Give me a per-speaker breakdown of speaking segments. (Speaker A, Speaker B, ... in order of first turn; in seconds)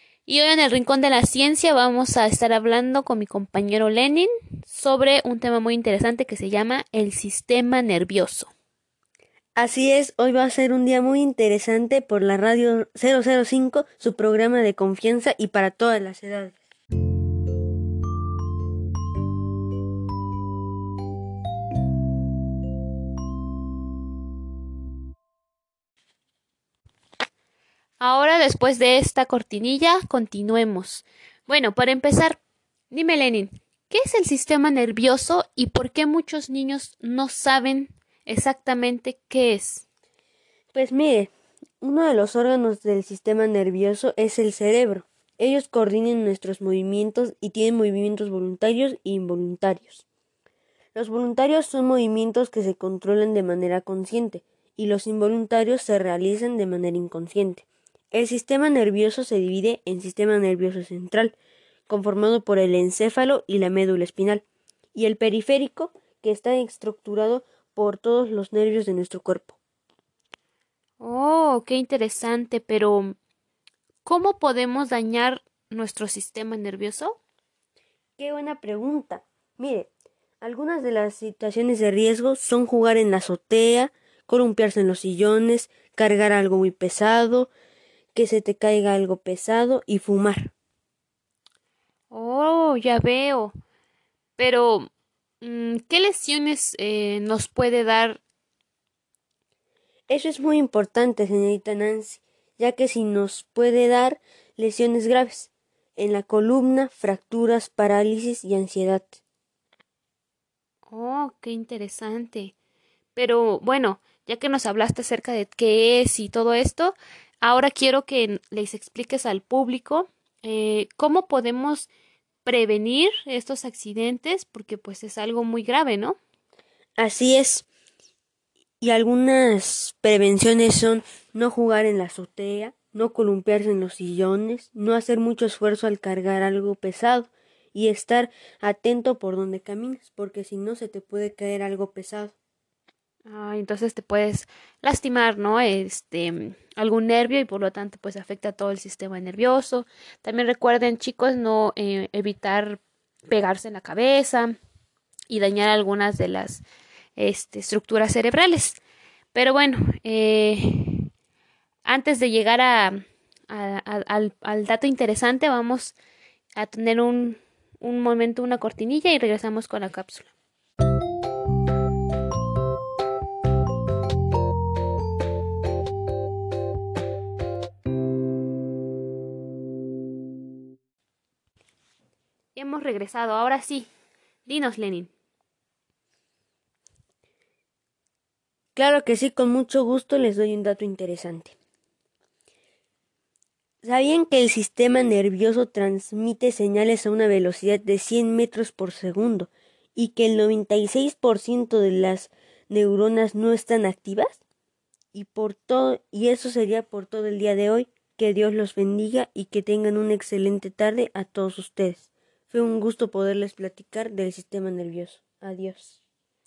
Speaker A: 0.2-8.5, 28.0-32.4, 32.9-39.8, 71.0-73.2, 74.0-77.2, 92.1-93.5, 94.4-94.9, 95.4-98.2, 110.9-112.5, 113.1-121.9, 122.4-126.2, 143.2-154.5, 155.3-156.6, 157.2-158.8, 159.3-161.1, 161.8-165.9, 166.6-170.3, 182.5-183.9, 184.4-185.1
Speaker B: 9.6-16.6, 40.7-50.0, 50.9-61.3, 61.9-64.4, 64.9-69.6, 78.2-79.9, 80.4-87.5, 88.1-90.5, 100.1-109.2, 127.0-127.7, 128.8-142.3, 188.7-191.5, 193.8-204.4, 205.1-216.0